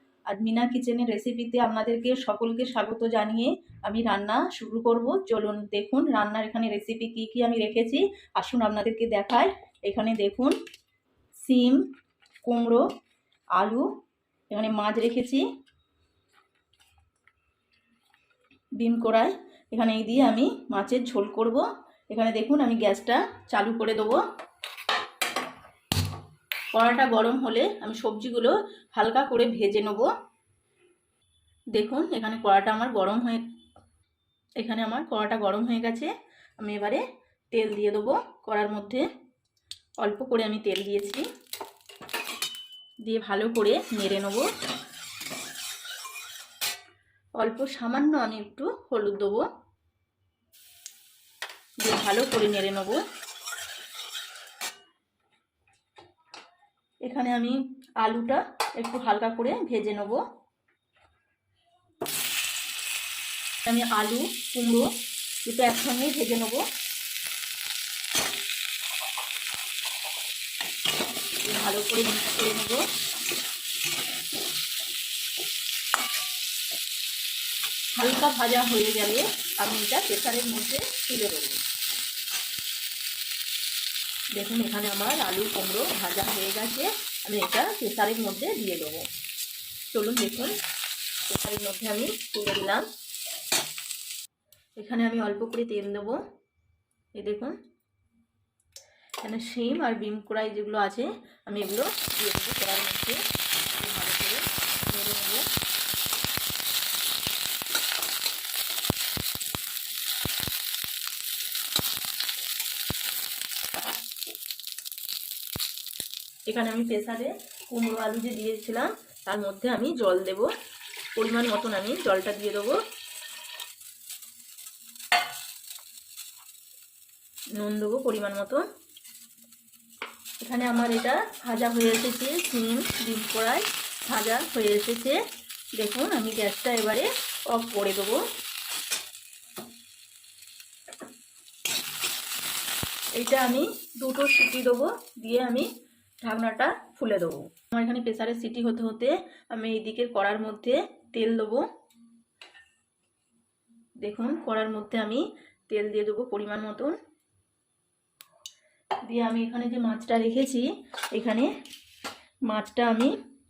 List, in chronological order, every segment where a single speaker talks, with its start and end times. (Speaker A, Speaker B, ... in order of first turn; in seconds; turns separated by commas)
Speaker A: 0.3-10.6, Speaker A: 11.4-11.9, Speaker A: 12.4-12.8, Speaker A: 13.6-13.9, Speaker A: 14.5-15.4, Speaker A: 18.8-24.2, Speaker A: 26.7-30.1, Speaker A: 31.7-33.5, Speaker A: 34.6-37.0, Speaker A: 37.5-39.1, Speaker A: 40.0-41.2, Speaker A: 43.0-44.5, Speaker A: 47.4-49.5, Speaker A: 51.8-53.0, Speaker A: 57.0-60.2, Speaker A: 63.6-64.9, Speaker A: 65.5-66.6, Speaker A: 71.4-72.8, Speaker A: 78.0-81.6, Speaker A: 84.3-89.1, Speaker A: 89.9-90.5, Speaker A: 91.3-92.9, Speaker A: 94.8-96.2, Speaker A: 97.2-97.5, Speaker A: 99.2-103.2, Speaker A: 103.8-105.5, Speaker A: 116.5-120.5, Speaker A: 121.2-122.8, Speaker A: 127.6-128.7, Speaker A: 130.4-135.2, Speaker A: 135.8-138.2, Speaker A: 143.2-145.7, Speaker A: 146.2-151.7, Speaker A: 154.0-157.0, Speaker A: 159.1-161.5, Speaker A: 162.5-163.2